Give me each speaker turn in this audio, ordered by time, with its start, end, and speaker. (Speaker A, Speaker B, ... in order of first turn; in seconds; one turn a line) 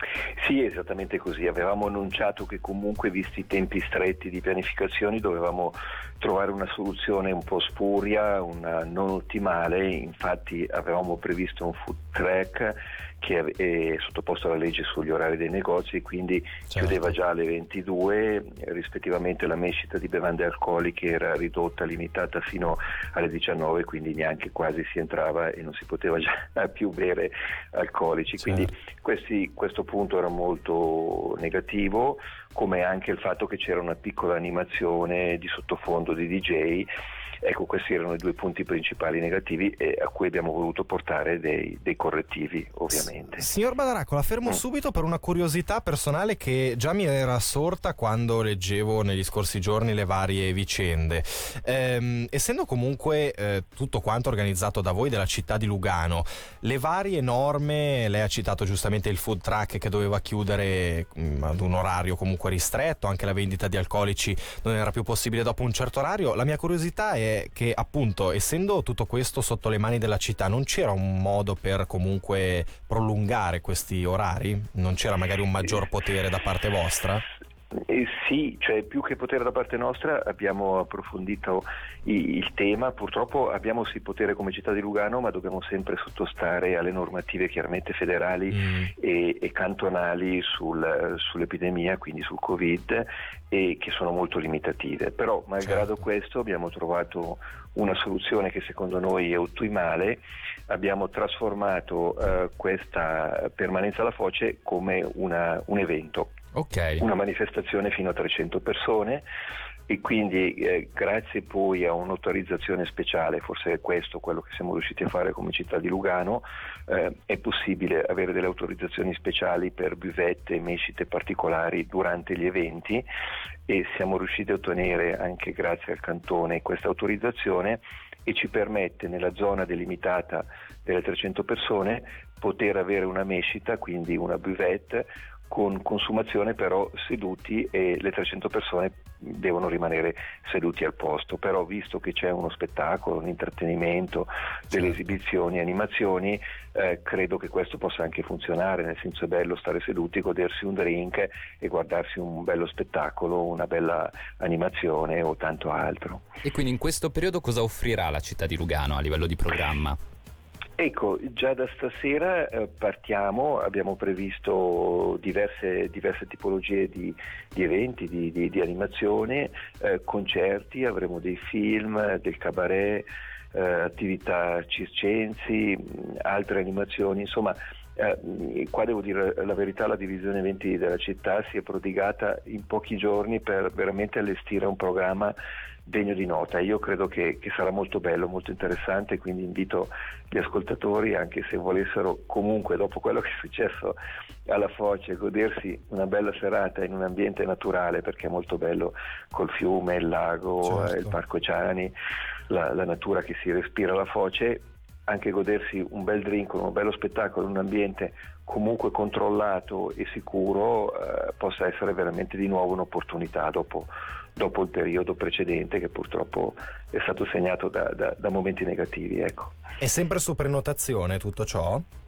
Speaker A: 0.4-36.9
Speaker A: 37.4-43.5
Speaker B: 43.4-77.2
Speaker A: 77.8-106.4
Speaker B: 88.5-88.9
Speaker C: 106.5-107.0
Speaker A: 107.0-109.2
Speaker A: 109.9-123.0
Speaker A: 123.7-156.2
Speaker C: 156.4-160.0
Speaker A: 160.8-185.3
Speaker A: 185.8-201.9
Speaker A: 202.5-219.5
Speaker B: 219.8-221.8